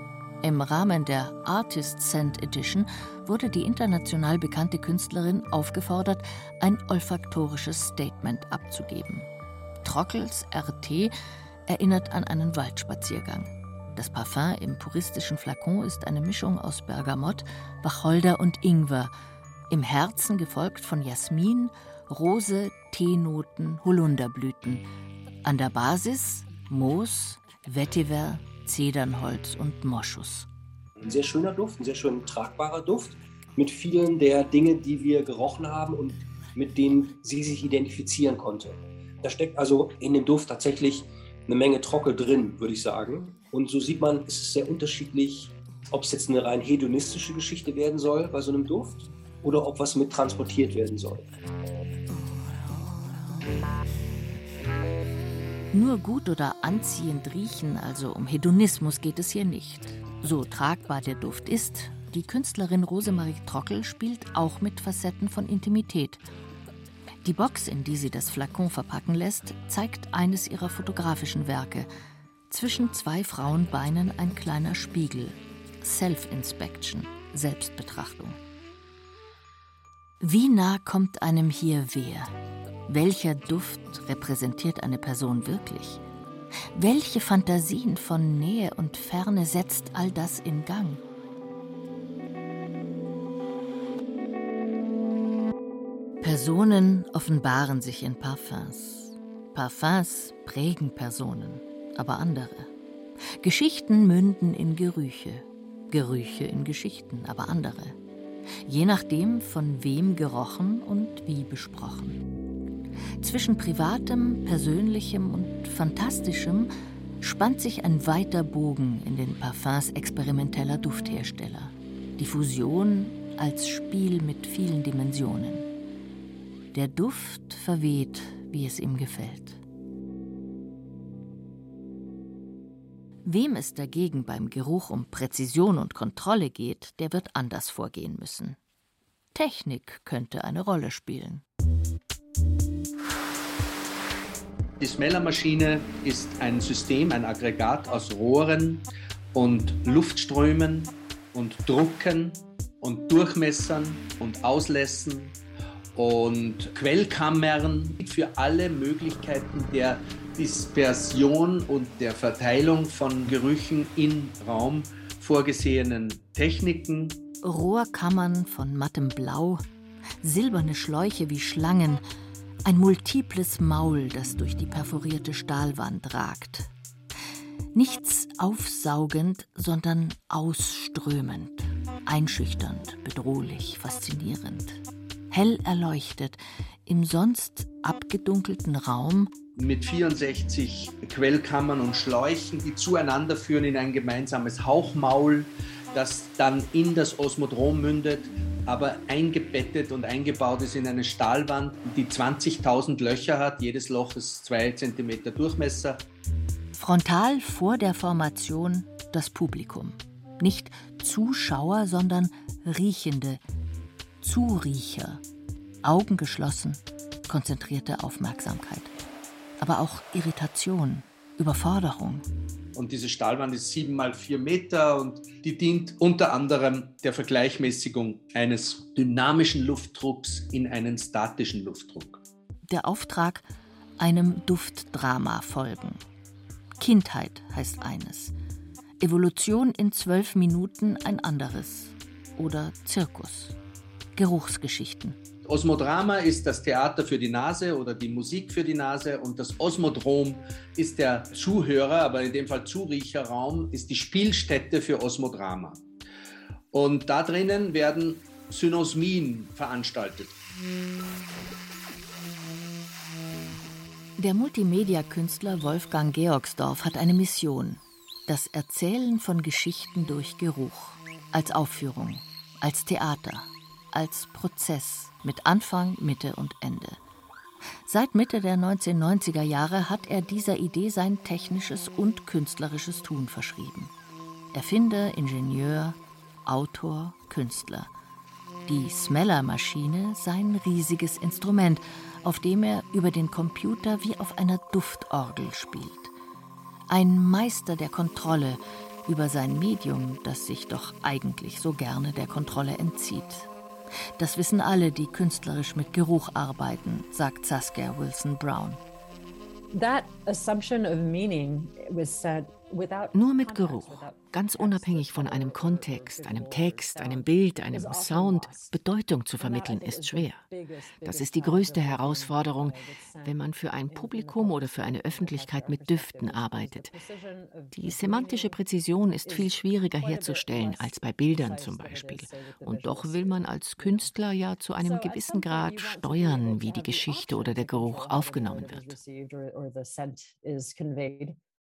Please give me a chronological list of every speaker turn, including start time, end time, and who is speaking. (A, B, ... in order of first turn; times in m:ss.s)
0:00.4-0:09.3 A
0:09.8-0:11.1 A
0:11.7-0:19.1 A
0:19.7-0:24.8 A
0:25.4-0:30.5 A
0:31.0-0:51.3 B
0:55.7-1:06.2 A
1:07.2-1:11.9 A
1:12.5-1:18.4 A
1:20.2-1:22.3 A
1:22.9-1:26.0 A
1:26.7-1:31.0 A
1:36.2-1:42.7 A
1:43.4-1:48.0 A
1:48.6-1:52.2 A
1:53.2-2:05.7 A
2:06.7-2:09.6 A
2:13.2-2:18.6 A
2:19.3-2:21.4 A
2:24.8-2:35.4 C
2:36.0-2:47.2 C
2:47.4-2:49.6 A
2:50.2-2:52.0 A
2:52.6-2:56.7 A
2:57.7-3:09.3 A
3:09.6-3:26.0 C
3:26.7-3:33.4 A
3:34.2-3:35.2 A
3:35.8-3:38.9 A
3:39.6-3:42.3 A
3:42.8-3:52.2 C
3:52.7-3:53.5 A
3:54.0-3:56.0 A
3:56.8-3:58.3 A
3:59.0-4:03.6 A
4:04.2-4:05.2 A
4:05.5-4:15.8 C
4:16.7-4:20.3 C
4:24.2-4:37.0 A
4:37.9-4:43.9 A
4:44.5-4:47.9 A
4:48.7-4:56.1 A
4:56.9-5:03.5 A
5:04.2-5:08.8 A
5:09.7-5:18.8 D
5:13.1-5:20.4 E
5:19.4-5:28.6 D
5:21.0-5:26.9 E
5:27.7-5:39.0 E
5:29.2-5:34.2 D
5:34.8-5:41.4 D